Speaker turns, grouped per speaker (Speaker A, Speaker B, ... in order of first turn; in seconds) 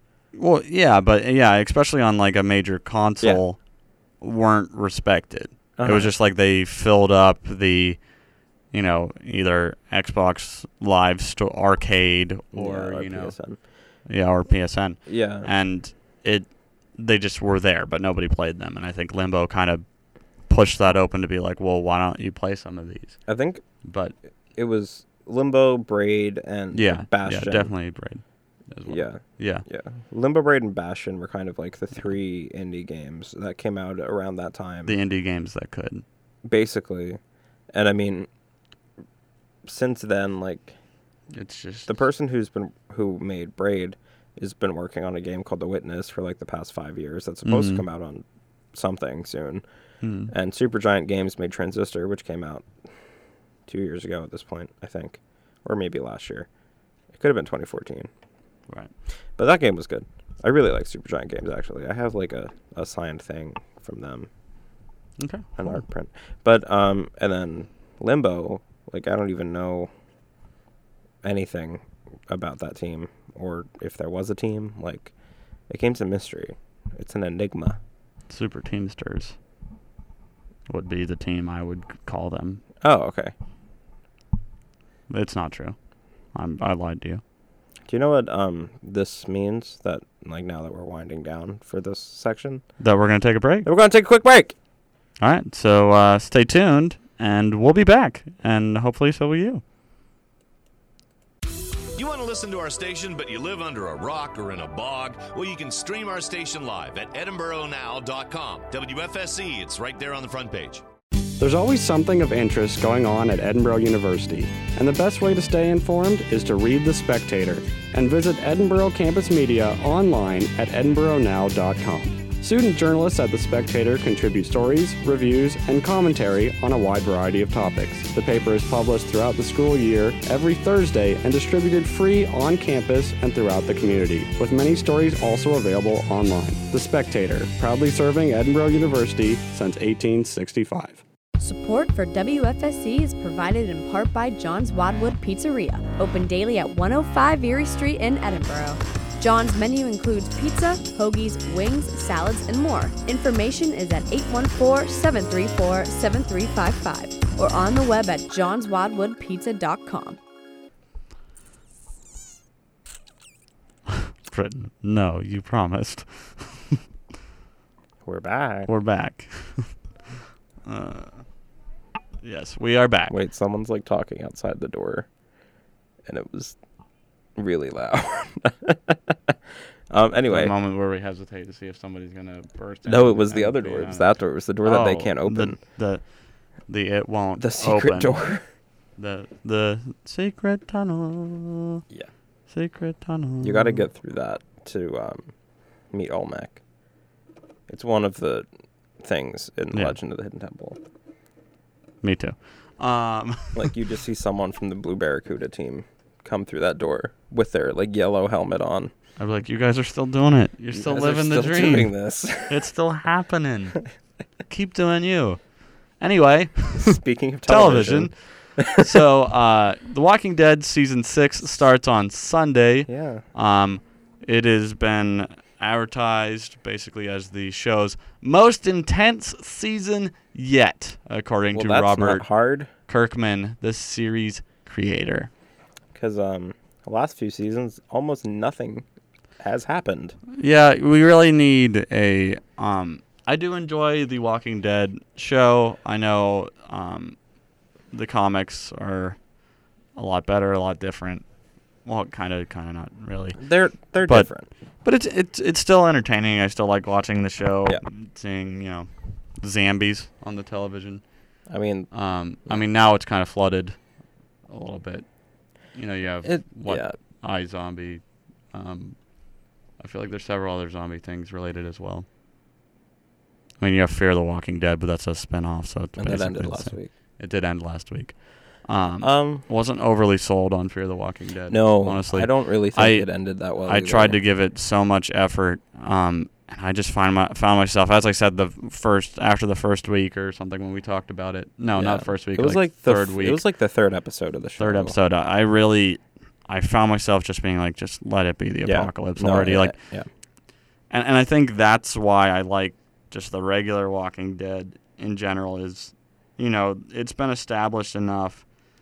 Speaker A: 0.3-3.6, 4.2-8.0, 8.7-13.3, 14.1-19.8, 20.5-23.2, 23.8-24.1, 26.7-29.6, 34.9-36.0, 41.3-42.0, 47.4-47.8, 50.0-50.3, 65.2-65.8, 78.3-79.3, 80.7-82.6, 85.1-85.8, 86.3-87.2, 92.8-93.7, 95.2-99.6, 164.3-166.8, 168.7-169.7, 170.7-171.2, 172.2-173.2, 180.3-184.1, 184.6-186.1, 186.6-188.2, 189.0-191.8, 192.5-193.8, 199.7-200.0, 202.0-203.7, 209.2-211.9, 212.5-213.8, 214.5-215.4, 216.0-216.9, 217.5-232.3, 232.9-235.3, 240.3-247.2, 247.9-249.2, 249.9-251.2, 251.8-253.4, 254.0-254.3, 254.8-261.0, 261.9-263.8, 264.5-265.1, 265.7-269.0, 269.8-272.1, 273.6-283.1, 283.6-293.4, 294.6-299.7, 300.9-308.4
Speaker B: 5.8-6.1, 12.5-13.6, 15.1-15.5, 23.3-23.6, 24.5-27.7, 28.9-35.0, 36.4-37.2, 37.7-38.3, 39.6-40.7, 41.9-49.6, 50.3-52.7, 53.7-56.5, 57.1-58.1, 59.4-64.3, 65.6-69.9, 71.2-75.1, 75.7-77.8, 82.8-83.3, 87.9-92.6, 93.6-94.5, 168.0-168.7, 173.1-175.1, 176.1-176.6, 177.3-179.4, 179.9-180.5, 182.8-185.6, 187.4-188.4, 193.4-195.3, 195.9-196.6, 197.7-198.5, 199.0-200.8, 203.5-208.9, 210.7-212.6, 216.8-218.9, 222.9-223.2, 231.5-232.7, 235.9-238.8, 239.4-240.2, 253.4-254.5, 261.5-261.9, 266.2-266.9, 276.0-276.9, 279.0-279.4, 281.5-284.2, 291.8-294.9, 298.6-300.1
Speaker C: 101.9-110.8
Speaker D: 111.4-141.0
Speaker E: 141.4-160.2